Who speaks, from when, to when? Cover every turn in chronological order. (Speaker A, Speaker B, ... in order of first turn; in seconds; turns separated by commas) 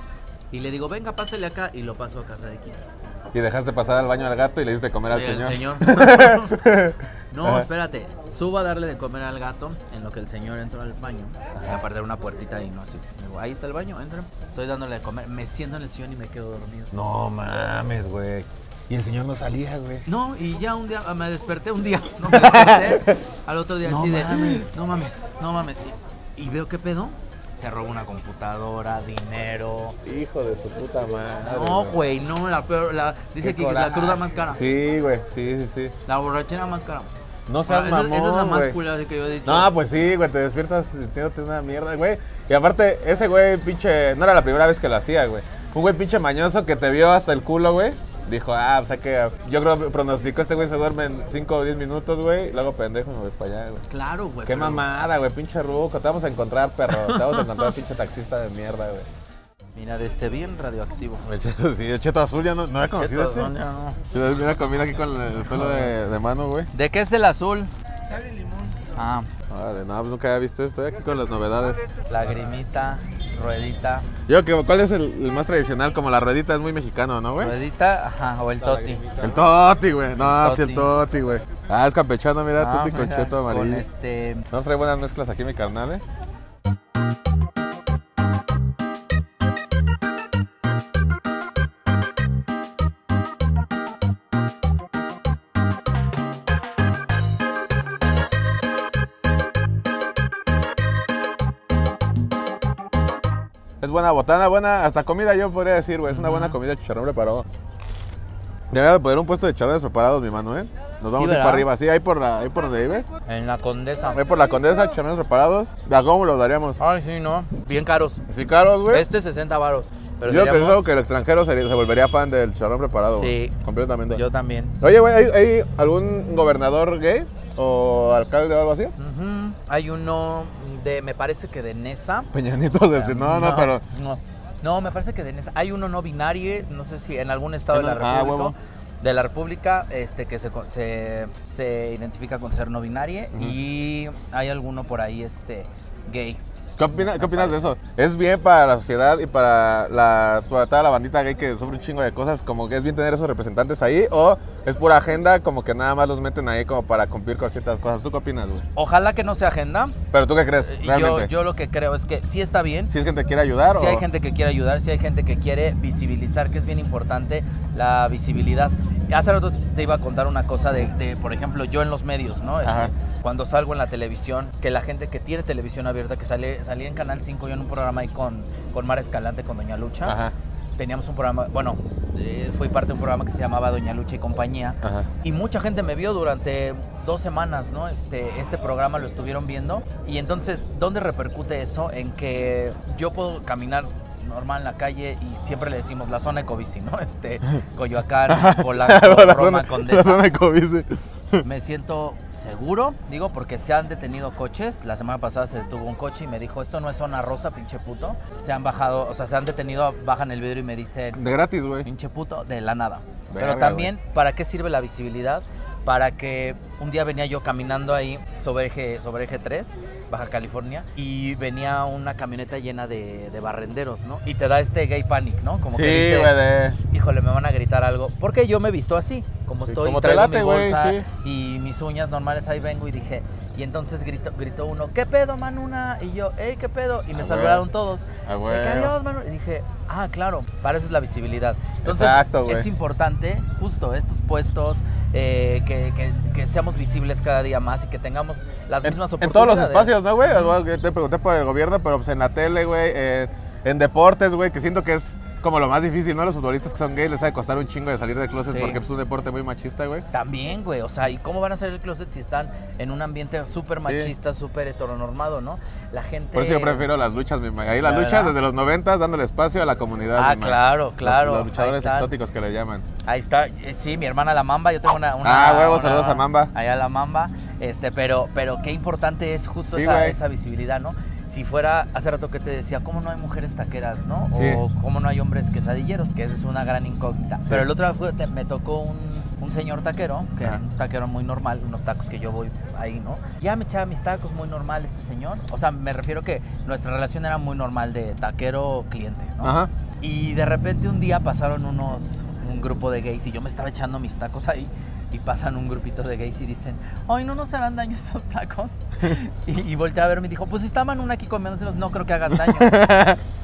Speaker A: 0.5-3.0, Speaker B: 3.3-7.7, Speaker A: 5.1-6.6, Speaker A: 7.3-16.9, Speaker B: 11.6-11.8, Speaker B: 16.9-20.0, Speaker A: 20.1-30.0, Speaker B: 22.3-23.2, Speaker B: 23.8-24.7, Speaker B: 30.0-32.0, Speaker A: 31.4-34.6, Speaker B: 33.4-36.0, Speaker A: 36.1-37.1, Speaker B: 37.5-38.8, Speaker A: 37.7-39.7, Speaker B: 39.5-53.8, Speaker A: 53.9-54.9, Speaker B: 54.5-59.1, Speaker A: 56.9-57.8, Speaker A: 59.8-61.2, Speaker B: 61.2-63.5, Speaker A: 62.9-64.0, Speaker B: 64.1-66.7, Speaker A: 65.5-65.9, Speaker A: 66.7-67.7, Speaker A: 68.9-69.3, Speaker B: 69.5-71.9, Speaker A: 72.1-74.1, Speaker B: 74.3-77.5, Speaker A: 77.4-79.3, Speaker B: 78.7-83.8, Speaker A: 80.2-80.9, Speaker A: 82.6-84.5, Speaker B: 84.5-86.0, Speaker B: 103.8-107.5, Speaker A: 106.1-106.6, Speaker B: 108.7-113.1, Speaker A: 111.1-111.7, Speaker A: 113.3-114.2, Speaker B: 114.1-116.8, Speaker A: 116.8-118.2, Speaker B: 118.3-119.1, Speaker A: 118.9-120.9, Speaker B: 120.2-124.2, Speaker A: 123.1-123.5, Speaker A: 124.1-124.8, Speaker B: 124.8-128.9, Speaker A: 129.0-132.3, Speaker B: 132.3-133.8, Speaker A: 132.9-146.4, Speaker B: 137.7-138.6, Speaker B: 146.8-158.7, Speaker A: 146.9-147.6, Speaker A: 158.8-160.0, Speaker B: 160.1-161.3, Speaker A: 160.7-162.9, Speaker B: 162.9-164.1, Speaker A: 163.7-180.2, Speaker B: 172.6-172.9, Speaker B: 180.0-180.3, Speaker A: 180.8-200.2, Speaker B: 184.8-185.1, Speaker B: 198.3-201.4, Speaker A: 201.4-211.2, Speaker B: 211.1-211.9, Speaker A: 211.8-250.5, Speaker B: 213.3-213.9, Speaker B: 225.7-226.8, Speaker B: 229.6-231.1, Speaker B: 237.1-237.7, Speaker B: 238.2-238.9, Speaker B: 241.8-242.7, Speaker B: 248.8-260.1, Speaker A: 258.5-258.8, Speaker A: 260.1-266.9, Speaker B: 263.8-264.1, Speaker B: 266.3-272.9, Speaker A: 267.8-268.4, Speaker A: 270.1-272.1, Speaker A: 273.1-312.9, Speaker B: 275.2-276.5, Speaker B: 279.7-280.2, Speaker B: 284.3-284.6, Speaker B: 299.4-299.7, Speaker B: 312.3-313.2